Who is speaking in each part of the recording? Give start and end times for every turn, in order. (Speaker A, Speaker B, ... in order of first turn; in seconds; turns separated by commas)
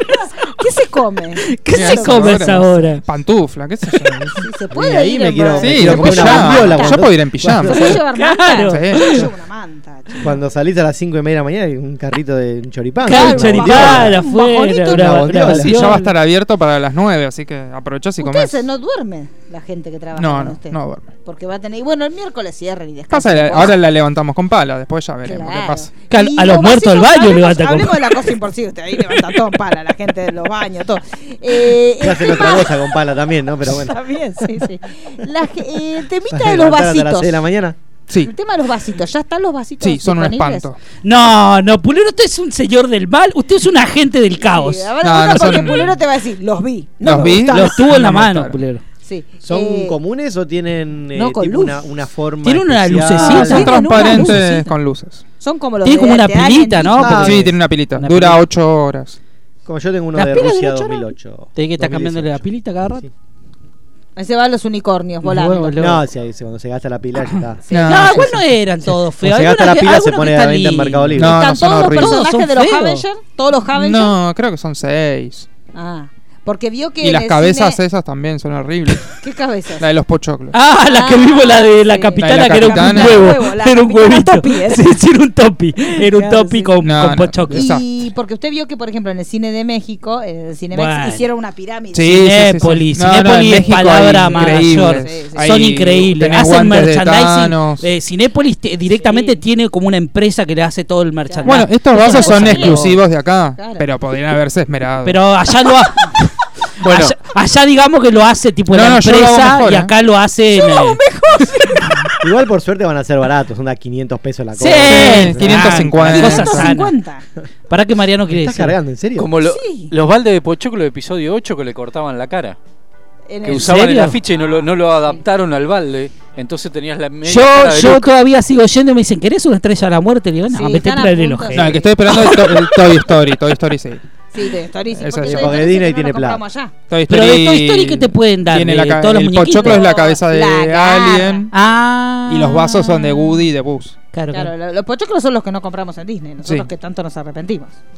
Speaker A: 0.1-2.6, Speaker B: 1.5-3.0, Speaker C: 1.7-4.4, Speaker A: 4.4-7.0, Speaker D: 4.7-7.8, Speaker C: 5.6-8.0, Speaker A: 7.6-10.3, Speaker B: 7.7-9.3, Speaker C: 8.6-9.2, Speaker D: 10.2-14.2, Speaker B: 13.0-16.1, Speaker A: 13.1-15.6, Speaker D: 14.9-16.0, Speaker C: 15.5-18.6, Speaker A: 18.2-23.8, Speaker C: 20.1-21.1, Speaker C: 23.1-25.9, Speaker A: 25.2-32.9, Speaker B: 26.1-28.3, Speaker D: 32.0-34.0, Speaker A: 33.6-37.4, Speaker D: 36.3-37.8, Speaker A: 38.2-40.7, Speaker C: 39.8-40.8, Speaker B: 41.0-44.9, Speaker A: 44.4-47.8, Speaker C: 45.0-45.9, Speaker C: 47.0-48.6, Speaker B: 47.1-48.8, Speaker A: 49.0-50.0, Speaker D: 49.4-53.7, Speaker A: 51.1-51.8, Speaker B: 52.4-54.6, Speaker A: 53.2-54.7, Speaker C: 53.3-55.2, Speaker A: 55.4-57.3, Speaker B: 55.8-58.4, Speaker D: 56.9-57.5, Speaker C: 57.1-59.2, Speaker D: 59.6-62.4, Speaker B: 60.1-61.0, Speaker B: 61.5-63.0, Speaker A: 64.2-65.9, Speaker B: 65.2-66.0, Speaker D: 65.8-68.3, Speaker A: 67.7-68.3, Speaker C: 67.7-68.3, Speaker B: 67.9-71.3, Speaker D: 68.9-71.3, Speaker C: 71.2-72.2, Speaker A: 71.2-74.2, Speaker B: 71.9-73.0, Speaker C: 73.7-75.5, Speaker A: 75.7-77.8, Speaker C: 77.0-79.2, Speaker A: 79.1-79.9, Speaker C: 79.8-80.5, Speaker B: 80.5-87.6, Speaker A: 80.9-84.9, Speaker C: 82.2-83.4, Speaker A: 85.9-86.7, Speaker C: 86.8-87.8, Speaker A: 87.5-92.3, Speaker B: 90.7-91.2, Speaker C: 91.9-97.9, Speaker B: 92.1-103.0, Speaker A: 93.6-95.7, Speaker A: 98.9-99.4, Speaker A: 101.3-103.0, Speaker C: 101.4-105.2, Speaker A: 103.6-103.9, Speaker B: 105.0-111.0, Speaker C: 106.8-107.1, Speaker C: 108.7-109.9, Speaker A: 110.5-112.1, Speaker D: 112.2-116.1, Speaker B: 114.6-116.9, Speaker C: 114.8-116.8, Speaker A: 116.0-117.2, Speaker B: 117.7-118.8, Speaker D: 118.3-119.3, Speaker E: 119.2-122.6, Speaker A: 119.4-119.9, Speaker A: 123.3-123.8, Speaker E: 123.4-128.1, Speaker B: 123.5-124.2, Speaker A: 124.3-125.2, Speaker B: 127.2-132.8, Speaker A: 130.5-132.1, Speaker C: 131.5-134.0, Speaker A: 134.3-136.7, Speaker C: 134.9-135.7, Speaker D: 135.2-136.4, Speaker C: 136.9-141.5, Speaker B: 137.1-139.8, Speaker A: 139.6-141.5, Speaker B: 141.5-143.2, Speaker C: 142.3-144.0, Speaker B: 144.1-144.5, Speaker A: 144.3-147.8, Speaker C: 146.4-146.7